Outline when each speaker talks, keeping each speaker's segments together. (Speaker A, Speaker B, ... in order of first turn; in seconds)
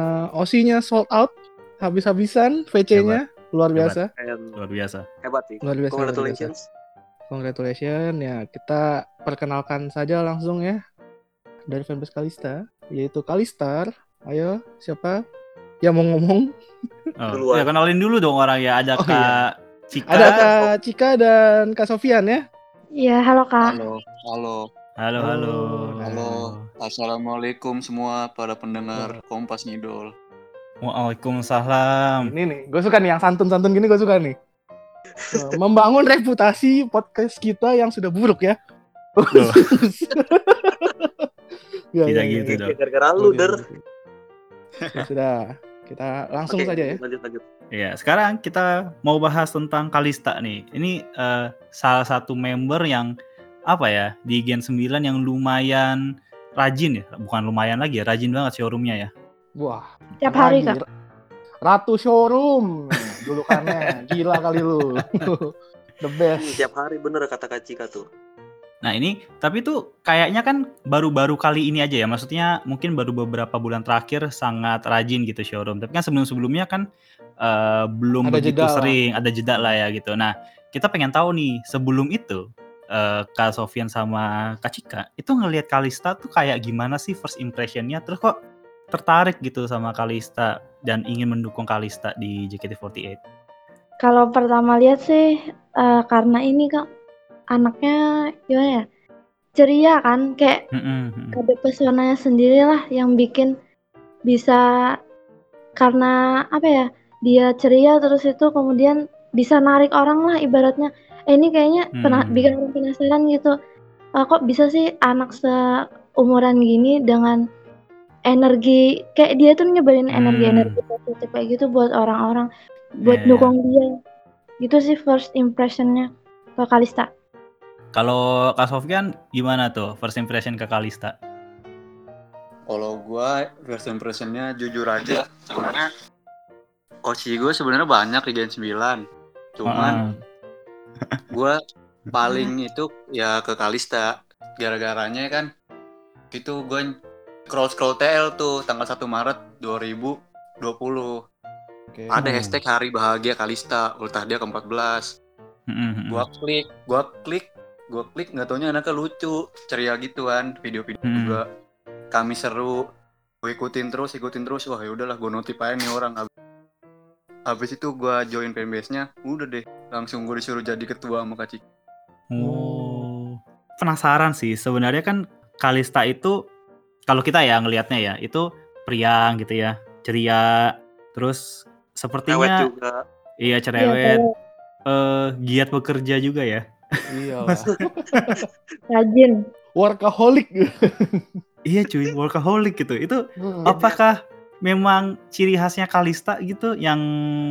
Speaker A: 0.4-4.1, 5.6-6.5, 7.3-10.8, 11.7-15.2, 15.8-16.5, 19.0-19.4, 20.1-22.4, 25.2-26.2, 32.2-34.4, 35.3-38.6, 39.2-41.3, 41.9-42.6, 43.2-43.8, 44.9-47.0, 59.6-60.8, 61.7-66.6, 78.2-79.0, 172.4-173.1, 187.1-188.0, 189.8-191.2, 193.4-193.7
Speaker B: 2.9-3.2, 4.6-5.0, 17.2-20.4, 25.0-26.6, 30.8-32.3, 39.3-39.7, 42.1-42.7, 47.7-53.1, 53.7-56.0, 56.6-59.1, 68.8-76.8, 77.4-82.4, 82.9-88.3, 88.9-93.2, 100.8-101.4, 112.0-112.5, 120.1-120.8, 123.1-123.5, 127.9-131.1, 139.7-140.1, 152.2-152.6, 155.7-156.2, 161.1-161.4, 172.3-176.3, 177.1-181.4, 182.0-182.6, 183.4-184.2, 184.9-186.6, 191.7-194.1, 194.7-197.0
Speaker C: 4.2-4.5, 5.2-6.6, 17.3-17.7, 20.2-20.7, 42.5-43.6, 46.5-47.4, 66.4-68.0, 182.3-182.9, 188.2-188.7, 193.7-194.0
Speaker D: 23.0-23.8, 60.2-60.8, 94.0-96.9, 97.5-98.0, 98.5-98.8, 99.6-100.6, 101.3-103.5, 104.3-104.6, 105.8-113.5, 114.2-115.5, 116.2-117.4, 118.3-122.5, 123.0-123.9, 124.6-127.1, 183.8-184.3, 188.9-189.4
Speaker E: 23.6-24.6, 26.1-30.1, 132.7-135.9, 137.1-139.0, 139.6-140.0, 142.1-145.5, 146.3-146.9, 147.5-151.1, 152.1-155.1, 156.1-161.4, 162.1-162.8, 163.4-166.3, 167.5-171.6